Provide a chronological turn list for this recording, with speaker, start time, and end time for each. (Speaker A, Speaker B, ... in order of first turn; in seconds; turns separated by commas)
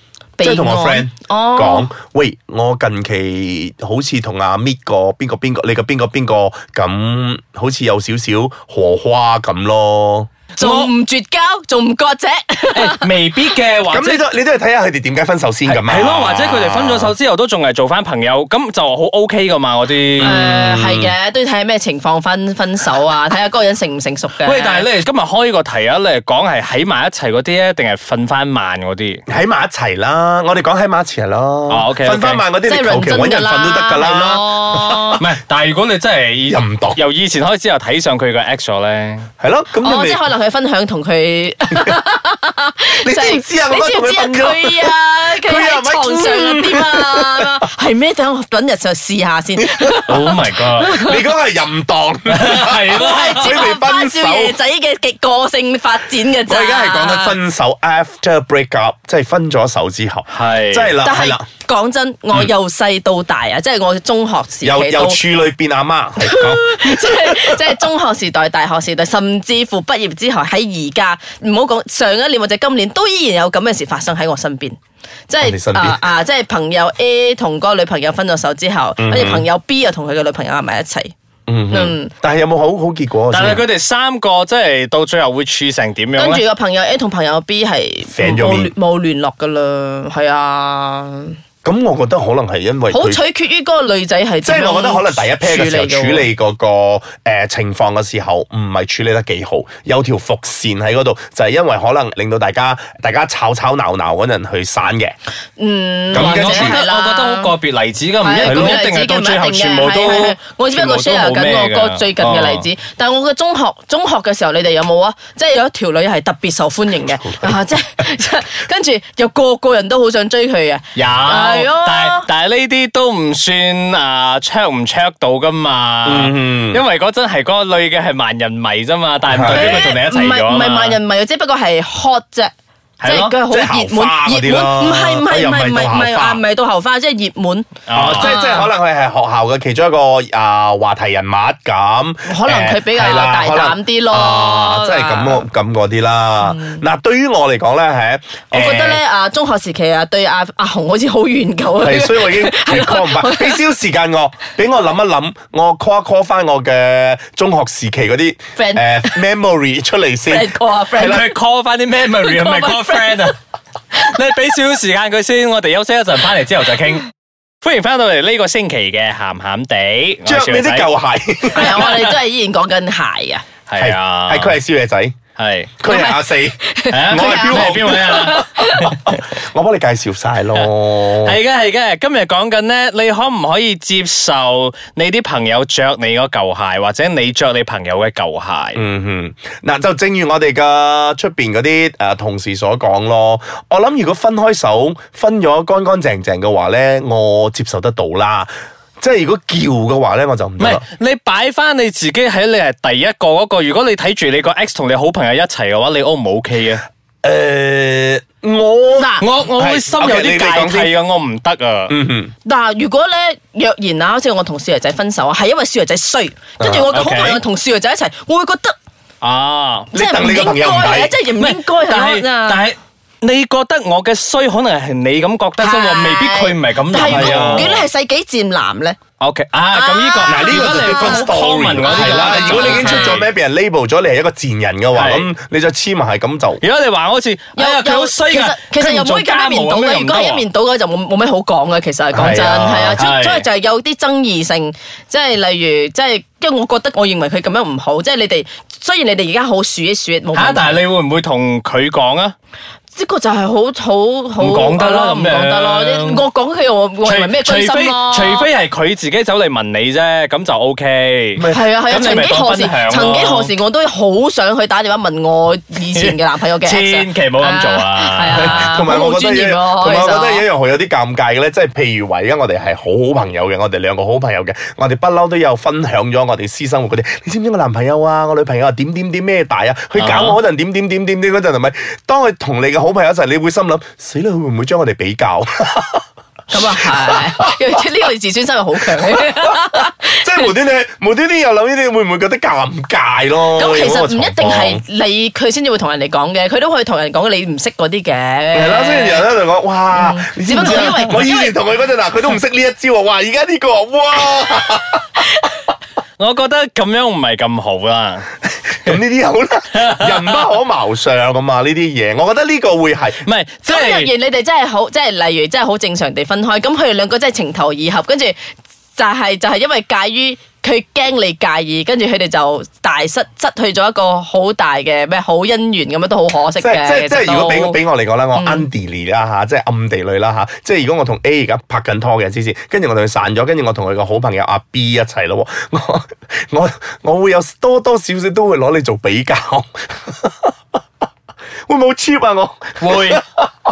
Speaker A: 0.4-1.9, Speaker B: 0.4-10.3, Speaker C: 10.6-10.9, Speaker A: 10.6-13.1, Speaker C: 12.7-14.2, Speaker B: 13.9-17.1, Speaker C: 15.7-20.4, Speaker B: 20.2-21.1, Speaker A: 20.2-24.9, Speaker C: 24.4-29.2, Speaker B: 29.3-35.2, Speaker C: 31.7-32.4, Speaker A: 32.6-35.2, Speaker C: 35.2-39.3, Speaker B: 36.5-37.0, Speaker B: 39.4-40.2, Speaker A: 39.8-51.2, Speaker B: 43.0-47.6, Speaker B: 49.6-50.1, Speaker C: 50.1-51.0, Speaker B: 50.9-54.6, Speaker C: 52.3-53.6, Speaker A: 52.9-57.4, Speaker B: 56.4-61.4, Speaker C: 60.3-60.9, Speaker A: 61.0-65.2, Speaker B: 64.6-67.8, Speaker A: 66.2-74.8, Speaker A: 75.3-81.1, Speaker B: 75.4-76.1, Speaker B: 79.0-79.5, Speaker B: 81.5-83.7, Speaker A: 81.7-82.1, Speaker C: 83.3-86.4, Speaker A: 86.2-91.4, Speaker B: 88.1-88.7, Speaker B: 91.6-93.2, Speaker A: 92.9-96.3, Speaker B: 94.4-105.2, Speaker A: 105.6-107.5, Speaker B: 106.1-106.8, Speaker C: 106.1-112.7, Speaker A: 108.2-122.2, Speaker B: 108.4-108.8, Speaker B: 117.3-117.5, Speaker C: 120.9-131.0, Speaker B: 126.0-126.8, Speaker B: 129.3-129.9, Speaker A: 129.4-138.7, Speaker C: 133.0-133.3, Speaker B: 133.5-136.4, Speaker C: 137.9-138.3, Speaker B: 137.9-149.0, Speaker A: 142.2-145.4, Speaker A: 146.4-146.8, Speaker A: 148.5-153.6, Speaker B: 151.8-161.3, Speaker A: 158.6-159.2, Speaker A: 160.3-161.3, Speaker C: 161.0-163.3, Speaker A: 162.1-163.3, Speaker C: 163.9-167.1, Speaker C: 167.6-170.9, Speaker B: 170.2-171.9, Speaker A: 171.5-173.4, Speaker C: 171.5-172.1, Speaker C: 173.7-174.6, Speaker B: 173.8-175.2, Speaker C: 175.4-175.7, Speaker B: 175.8-181.4, Speaker A: 175.8-179.0, Speaker C: 176.9-178.5, Speaker C: 180.6-188.8, Speaker B: 188.7-200.8, Speaker C: 200.6-206.8, Speaker B: 207.2-210.9, Speaker A: 209.0-209.3, Speaker C: 209.2-211.9, Speaker B: 211.9-212.3, Speaker A: 212.4-218.8, Speaker B: 216.6-216.9, Speaker C: 216.9-217.4, Speaker C: 219.2-219.9, Speaker B: 219.9-221.1, Speaker A: 219.9-222.6, Speaker C: 221.4-227.8, Speaker A: 225.6-229.0, Speaker B: 227.0-227.7, Speaker C: 229.2-233.3, Speaker A: 229.7-233.2, Speaker B: 230.2-236.6, Speaker C: 234.9-235.3, Speaker C: 236.6-240.4, Speaker A: 237.6-250.8, Speaker B: 242.1-243.0, Speaker C: 243.0-243.4, Speaker C: 250.3-252.3, Speaker A: 252.9-258.5, Speaker C: 254.4-256.2, Speaker C: 257.0-263.5, Speaker B: 261.4-261.8, Speaker A: 261.5-270.4, Speaker C: 265.9-268.6, Speaker B: 268.3-287.2, Speaker C: 279.9-280.4, Speaker A: 286.5-290.5, Speaker B: 289.0-294.8, Speaker A: 293.5-299.3, Speaker B: 298.5-305.2, Speaker A: 299.9-301.5, Speaker C: 306.2-309.0, Speaker B: 308.8-313.2, Speaker C: 309.7-310.4, Speaker C: 313.2-314.1, Speaker A: 313.7-327.8, Speaker B: 326.6-340.5, Speaker A: 328.3-328.7, Speaker B: 341.7-343.5, Speaker C: 342.8-343.2